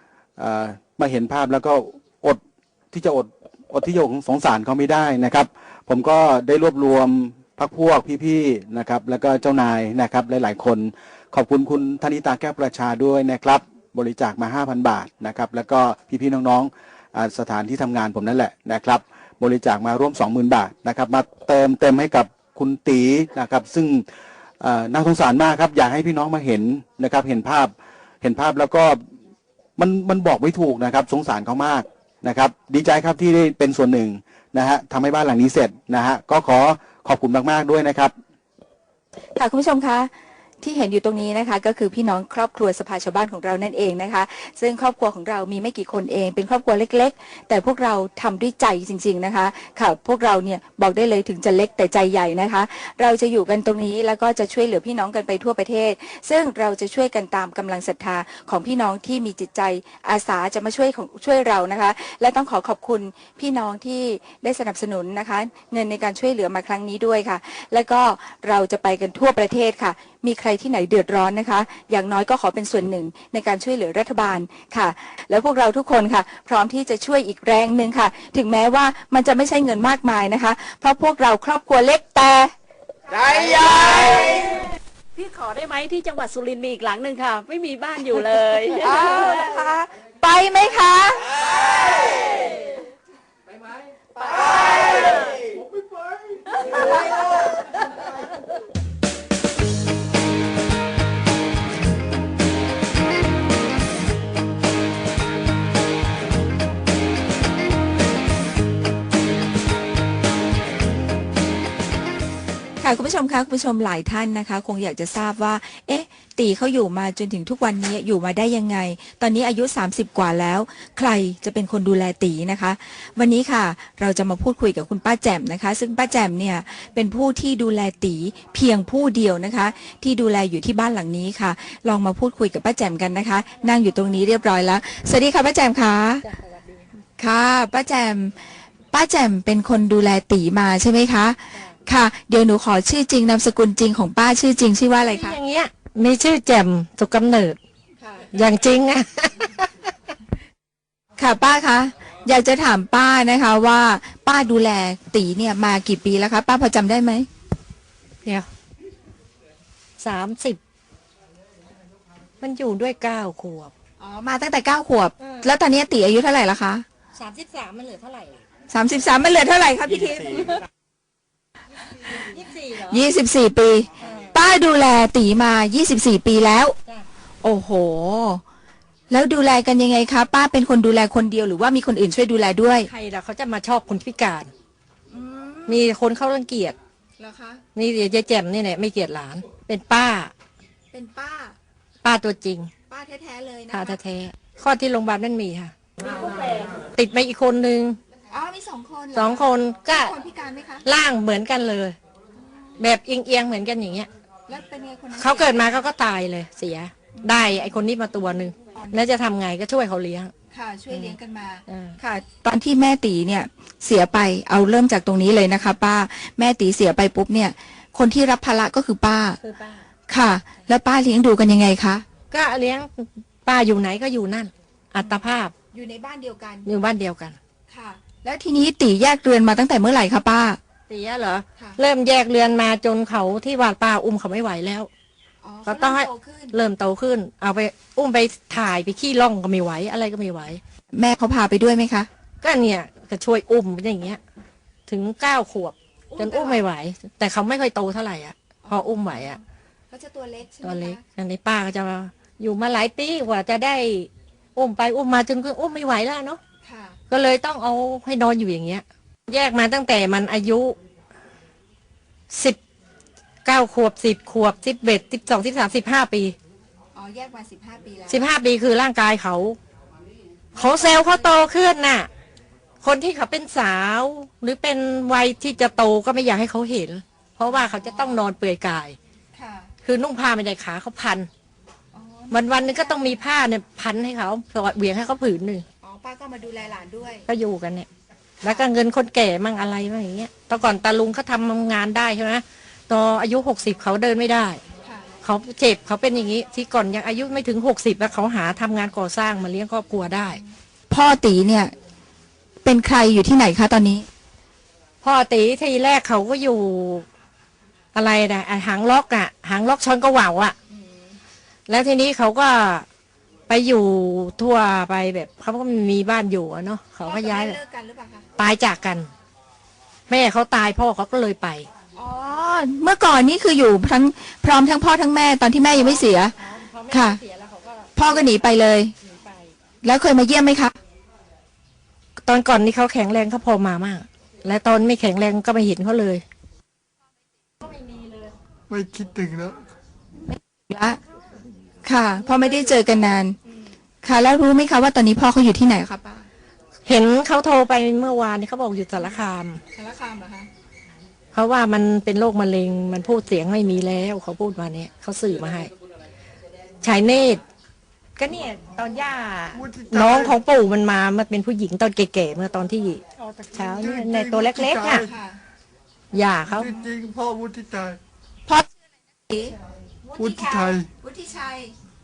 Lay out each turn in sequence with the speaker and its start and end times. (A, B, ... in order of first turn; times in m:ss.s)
0:00.4-0:02.4 A
0:02.9-0:24.0 A
0:24.6-0:27.7 A
0:28.2-0:29.0 A
0:29.8-0:38.1 A
0:39.4-0:40.1 B
0:40.6-1:22.5 B
1:23.1-1:29.5 C
1:28.8-1:31.3 B
1:52.8-2:16.2 B
2:16.2-2:16.9 D
2:17.2-2:25.4 B
2:25.0-2:27.6 D
2:28.0-2:28.3 B
2:28.3-2:29.7 D
2:31.2-2:37.3 B
2:40.0-2:40.6 D
2:42.4-2:43.7 D
2:44.0-2:46.8 B
2:45.2-2:45.5 D
2:47.2-2:48.4 D
2:48.7-2:50.6 B
2:52.0-2:53.1 D
2:52.8-2:56.8 B
2:54.0-2:54.4 D
2:57.4-2:58.4 B
2:59.1-3:02.9 B
3:02.8-3:04.5 D
3:05.1-3:05.9 B
3:05.7-3:06.8 D
3:07.2-3:07.6 B
3:07.8-3:10.3 D
3:10.9-3:11.6 B
3:12.0-3:12.7 D
3:12.9-3:14.0 B
3:13.7-3:18.0 D
3:18.3-3:20.9 B
3:19.1-3:20.1 D
3:20.8-3:22.0 D
3:22.5-3:22.8 B
3:22.8-3:24.1 D
3:24.5-3:25.6 B
3:25.2-3:30.3 D
3:27.2-3:27.7 B
3:28.8-3:29.0 B
3:30.5-3:39.4 B
3:31.7-3:32.0 D
3:39.4-3:39.8 D
3:40.1-3:42.0 B
3:42.3-3:45.5 D
3:45.0-3:46.7 B
3:46.6-3:47.4 D
3:47.7-3:50.6 B
3:50.9-3:54.9 D
3:55.4-3:56.6 B
3:55.6-4:00.6 D
4:00.9-4:02.1 B
4:02.4-4:04.2 D
4:04.9-4:09.4 D
4:06.1-4:06.6 B
4:08.6-4:11.0 B
4:10.6-4:16.4 D
4:16.6-4:17.0 B
4:17.1-4:20.8 D
4:22.3-4:22.6 D
4:23.4-4:26.4 D
4:27.0-4:28.3 B
4:28.1-4:29.6 D
4:30.5-4:31.3 B
4:30.6-4:32.1 D
4:32.8-4:39.0 D
4:37.4-4:38.2 B
4:39.4-4:39.7 B
4:39.8-4:41.3 D
4:41.9-4:43.2 B
4:42.3-4:45.6 D
4:45.8-4:47.3 B
4:47.3-4:47.9 D
4:48.4-4:54.6 D
4:54.8-4:55.1 B
4:55.2-5:00.4 D
5:00.9-5:01.7 B
5:02.6-5:04.1 B
5:05.0-5:07.0 D
5:07.9-5:10.6 D
5:10.7-5:11.2 B
5:11.7-5:12.9 D
5:13.5-5:17.6 D
5:17.0-5:18.3 B
5:18.4-5:19.1 D
5:20.1-5:21.7 D
5:22.0-5:26.4 B
5:25.7-5:29.5 D
5:26.9-5:27.2 B
5:28.0-5:28.9 B
5:29.8-5:30.8 B
5:32.2-5:36.2 D
5:37.6-5:38.3 D
5:38.7-5:39.7 E
5:40.3-5:41.0 B
5:41.8-5:43.4 B
5:44.0-5:46.3 B
5:46.9-5:49.6 D
5:49.8-5:50.5 B
5:51.3-5:55.7 D
5:56.8-5:57.4 D
5:58.2-6:05.1 D
5:59.5-6:00.4 E
6:03.2-6:05.1 E
6:05.1-6:05.4 B
6:06.1-6:06.7 D
6:06.5-6:08.0 E
6:08.5-6:09.6 B
6:10.1-6:10.8 D
6:10.2-6:10.9 E
6:11.0-6:11.7 B